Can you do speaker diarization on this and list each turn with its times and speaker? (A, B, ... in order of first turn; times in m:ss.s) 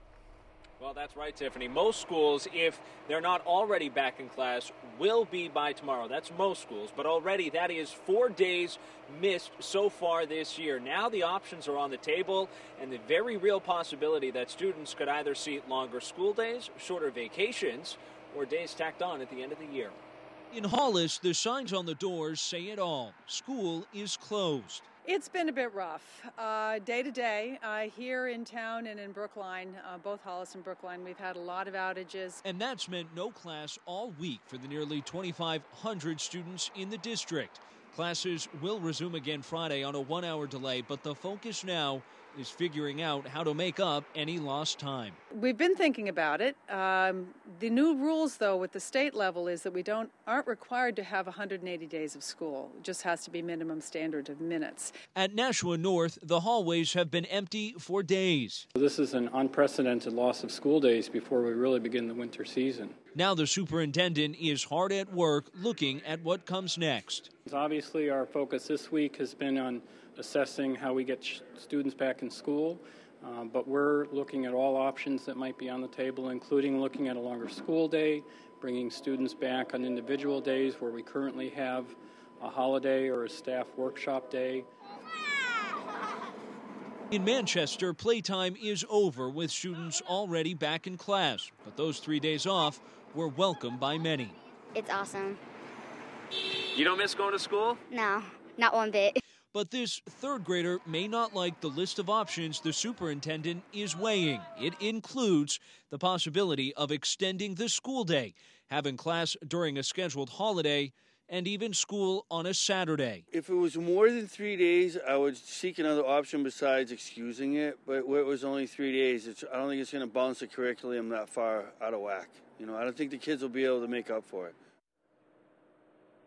0:00.8-0:20.0 A
0:20.5-0:24.9 B
0:25.1-0:32.3 C
0:32.4-0:45.2 B
0:45.3-0:54.9 C
0:55.2-0:58.7 B
0:58.8-1:03.0 D
1:03.2-1:07.3 B
1:07.5-1:24.7 D
1:27.1-1:34.4 B
1:34.8-1:35.4 E
1:36.8-1:37.8 A
1:37.9-1:39.2 E
1:39.5-1:53.2 B
1:53.3-2:04.6 F